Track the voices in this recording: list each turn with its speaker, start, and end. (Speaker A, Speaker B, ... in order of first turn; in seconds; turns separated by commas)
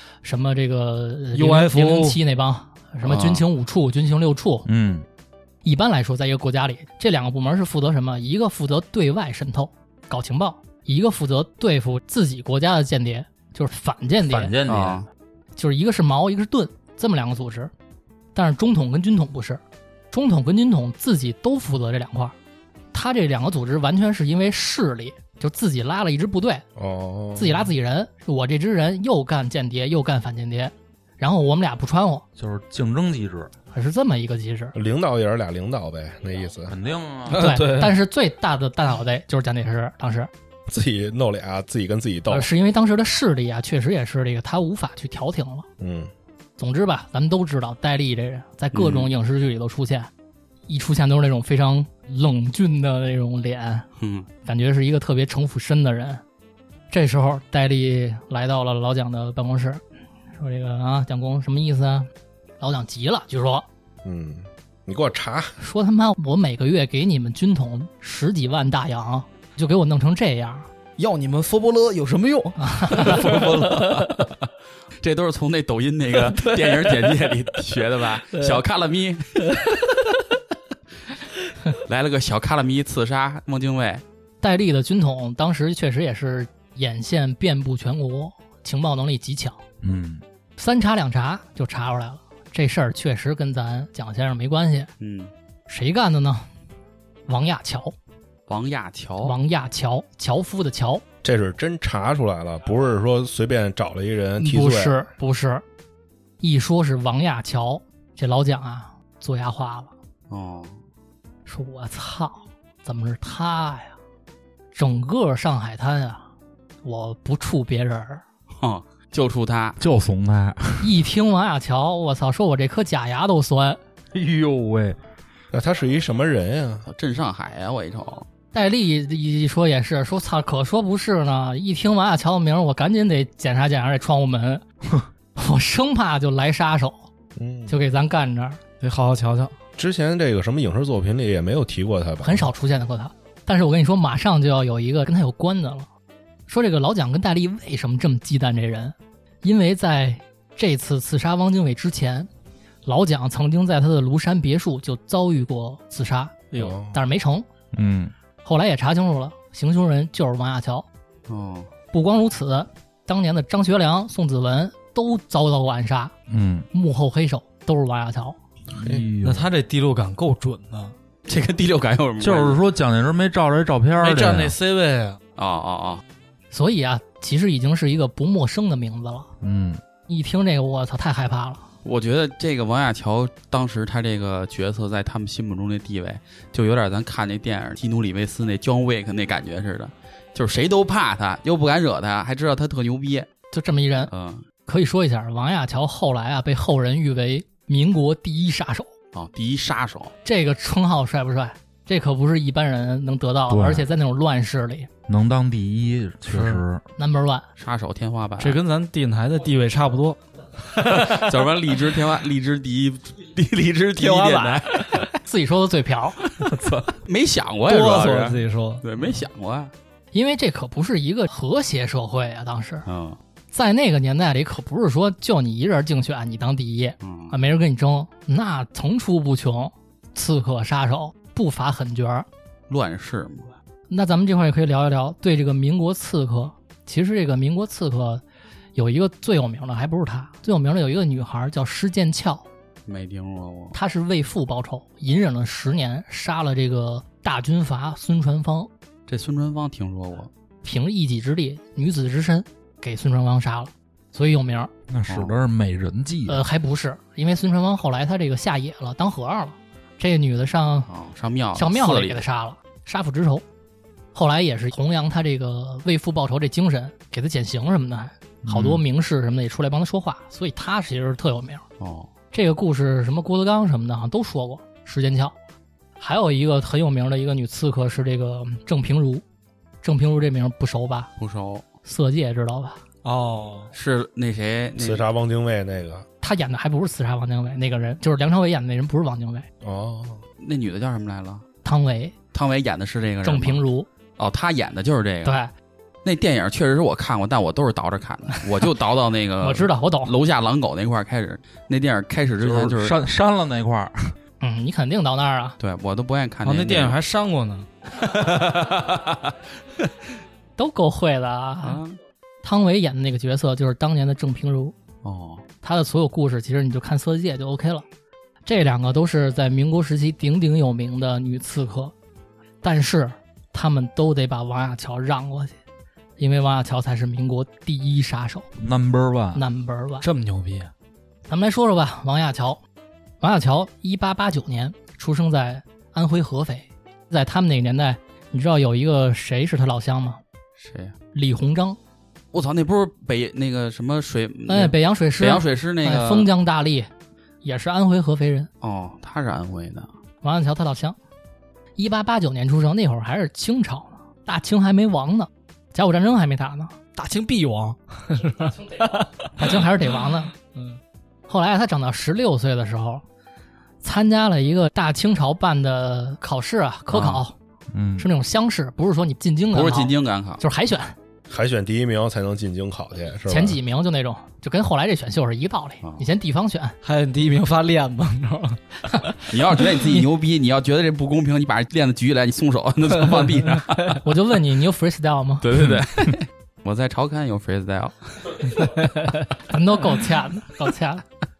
Speaker A: 0.2-4.7, Speaker B: 1.3-2.2, Speaker C: 3.0-3.4, Speaker D: 4.7-5.0, Speaker A: 5.6-14.6, Speaker D: 14.3-15.1, Speaker C: 14.7-15.1, Speaker A: 15.6-17.7, Speaker A: 18.4-19.6, Speaker A: 20.1-22.4, Speaker A: 22.9-26.6, Speaker E: 26.8-27.7, Speaker A: 27.4-32.2, Speaker D: 32.4-33.5, Speaker A: 33.7-34.8, Speaker E: 34.8-36.8, Speaker D: 36.7-37.5, Speaker B: 37.3-38.0, Speaker A: 37.3-40.3, Speaker E: 40.7-42.5, Speaker A: 42.3-45.7, Speaker E: 45.8-46.1, Speaker A: 46.6-50.1, Speaker C: 48.7-49.1, Speaker A: 50.7-53.9, Speaker C: 54.0-54.3, Speaker A: 54.5-56.2, Speaker A: 56.9-59.8, Speaker A: 60.4-62.1, Speaker A: 62.6-63.7, Speaker E: 64.0-65.6, Speaker A: 65.6-70.7, Speaker B: 71.0-74.3, Speaker A: 72.6-73.2, Speaker C: 73.0-74.5, Speaker C: 75.0-79.5, Speaker B: 76.2-77.3, Speaker B: 78.3-78.6, Speaker B: 79.5-80.1, Speaker C: 81.8-84.0, Speaker A: 84.4-89.6, Speaker D: 89.8-90.2, Speaker A: 90.6-94.9, Speaker C: 95.0-95.3, Speaker A: 95.7-96.5, Speaker A: 97.3-97.9, Speaker C: 98.5-99.4, Speaker A: 99.2-101.0, Speaker E: 101.2-105.0, Speaker A: 104.4-105.6, Speaker A: 106.4-109.9, Speaker C: 110.3-110.8, Speaker A: 111.5-114.0, Speaker A: 114.7-116.3, Speaker A: 116.8-118.2, Speaker C: 118.6-119.8, Speaker D: 119.8-121.0, Speaker A: 120.8-123.8, Speaker D: 124.1-125.0, Speaker E: 125.5-126.9, Speaker C: 126.9-128.3, Speaker A: 128.5-134.6, Speaker A: 135.4-137.1, Speaker E: 137.4-137.8, Speaker A: 137.7-138.6, Speaker B: 138.8-139.5, Speaker E: 139.8-142.5, Speaker A: 142.2-145.9, Speaker A: 146.5-152.3, Speaker A: 152.8-157.5, Speaker B: 156.5-156.8, Speaker E: 156.6-157.0, Speaker D: 157.7-158.1, Speaker A: 158.4-160.9, Speaker C: 161.3-161.7, Speaker A: 161.9-166.1, Speaker D: 166.3-166.7, Speaker A: 166.7-168.4, Speaker D: 168.7-169.5, Speaker E: 168.8-169.0, Speaker B: 169.2-170.9, Speaker C: 171.3-172.6, Speaker D: 172.2-174.6, Speaker B: 174.0-175.2, Speaker C: 175.4-176.0, Speaker A: 176.5-179.3, Speaker D: 179.4-179.8, Speaker A: 180.1-181.7, Speaker C: 181.8-193.3, Speaker A: 193.5-194.1, Speaker C: 194.1-194.4, Speaker A: 194.7-198.9, Speaker C: 199.1-200.1, Speaker A: 200.2-204.9, Speaker D: 203.5-203.9, Speaker D: 205.1-206.8, Speaker B: 206.3-206.6, Speaker A: 207.0-207.4, Speaker C: 207.6-208.6, Speaker B: 208.4-210.2, Speaker B: 210.7-211.4, Speaker C: 210.8-215.0, Speaker B: 214.0-215.1, Speaker A: 215.2-216.2, Speaker B: 216.5-216.8, Speaker D: 216.6-216.9, Speaker C: 217.1-219.7, Speaker B: 217.7-218.8, Speaker A: 220.1-222.9, Speaker C: 222.9-223.2, Speaker A: 223.5-232.3, Speaker C: 227.0-227.4, Speaker C: 232.7-233.5, Speaker A: 233.9-238.2, Speaker A: 238.8-242.5, Speaker C: 242.9-243.8, Speaker A: 243.7-248.7, Speaker C: 249.1-250.3, Speaker A: 250.6-254.7, Speaker D: 254.9-256.4, Speaker C: 255.1-255.3, Speaker A: 256.3-260.9, Speaker C: 260.9-262.2, Speaker A: 261.6-263.4, Speaker A: 264.1-271.6, Speaker D: 268.4-268.8, Speaker C: 271.8-272.1, Speaker A: 272.3-275.4, Speaker A: 276.0-279.2, Speaker A: 279.8-281.1, Speaker C: 281.2-281.7, Speaker A: 281.8-282.8, Speaker B: 283.0-283.7, Speaker C: 283.7-285.1, Speaker E: 284.8-286.1, Speaker A: 286.2-289.5, Speaker E: 289.6-290.2, Speaker C: 290.4-291.4, Speaker A: 291.6-292.1, Speaker C: 292.3-293.6, Speaker A: 293.2-293.9, Speaker C: 294.2-295.4, Speaker A: 295.2-295.5, Speaker C: 296.1-303.0, Speaker A: 299.4-300.1, Speaker D: 302.4-304.2, Speaker A: 304.4-305.6, Speaker C: 305.6-307.0, Speaker B: 306.4-307.7, Speaker A: 310.6-311.8, Speaker C: 311.6-312.0, Speaker A: 312.4-314.7, Speaker C: 315.0-315.4, Speaker A: 315.6-317.9, Speaker A: 318.4-321.9, Speaker A: 322.6-325.6, Speaker A: 326.2-328.5, Speaker D: 328.6-329.4, Speaker A: 329.3-330.1, Speaker B: 330.0-330.7, Speaker A: 331.3-332.6, Speaker A: 333.2-340.2, Speaker C: 340.6-340.9, Speaker A: 341.1-341.8, Speaker C: 342.3-346.3, Speaker A: 344.5-346.9, Speaker A: 347.4-348.5, Speaker C: 348.6-349.9, Speaker A: 350.2-351.0, Speaker A: 351.8-356.8, Speaker B: 356.9-359.3, Speaker A: 359.4-360.3, Speaker A: 361.3-363.0, Speaker A: 363.8-367.4, Speaker C: 366.9-367.2, Speaker D: 367.7-368.1, Speaker A: 368.0-371.0, Speaker C: 369.5-370.4, Speaker E: 371.3-373.6, Speaker A: 373.3-376.8, Speaker B: 376.8-379.2, Speaker C: 379.3-384.0, Speaker A: 384.0-385.5, Speaker C: 385.4-388.6, Speaker A: 389.5-391.1